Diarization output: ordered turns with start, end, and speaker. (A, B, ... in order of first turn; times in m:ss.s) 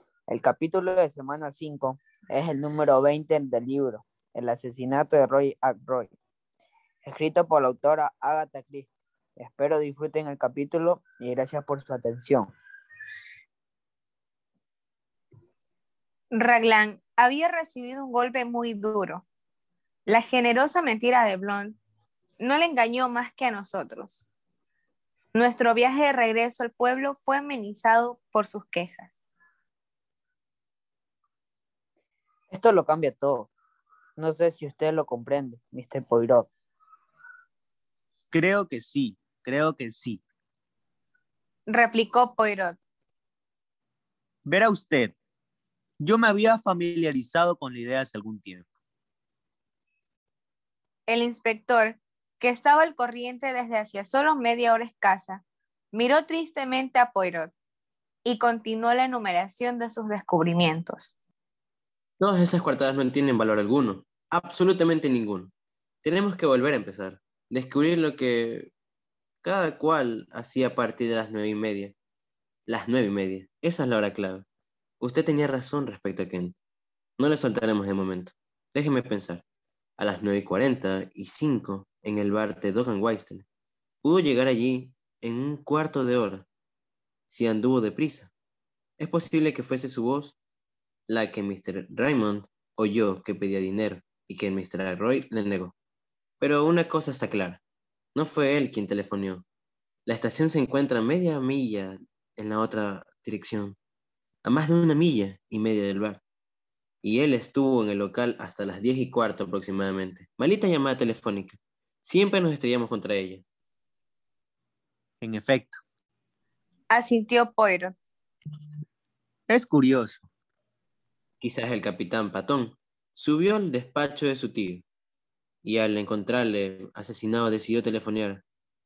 0:00.3-0:06.1 A
0:07.0-0:12.5 A
0:16.3-0:19.2 B
0:20.1-0:21.8 B
0:22.4-0:24.3 B
0:25.3-0:29.1 B
0:32.5-0:33.5 A
0:34.2-0:36.5 A
0:38.3-0:40.2 C
0:41.7-0:42.8 B
0:44.4-0:45.1 C
0:46.0-0:48.7 C
0:51.1-0:57.5 B
0:58.2-1:01.1 B
1:02.2-1:05.5 D
1:06.0-1:08.7 D
1:09.4-1:11.9 D
1:12.7-1:14.4 D
1:15.0-1:16.6 D
1:17.2-1:19.4 D
1:20.0-1:23.4 D
1:24.0-1:26.5 D
1:27.3-1:28.3 D
1:29.0-1:30.4 D
1:31.1-1:35.7 D
1:36.4-1:37.6 D
1:38.1-1:39.4 D
1:40.0-1:43.8 D
1:44.4-1:46.2 D
1:47.0-1:53.4 D
1:55.2-1:55.8 C
1:56.9-1:57.9 B
1:59.5-2:00.3 C
2:01.4-2:04.8 D
2:05.6-2:08.4 D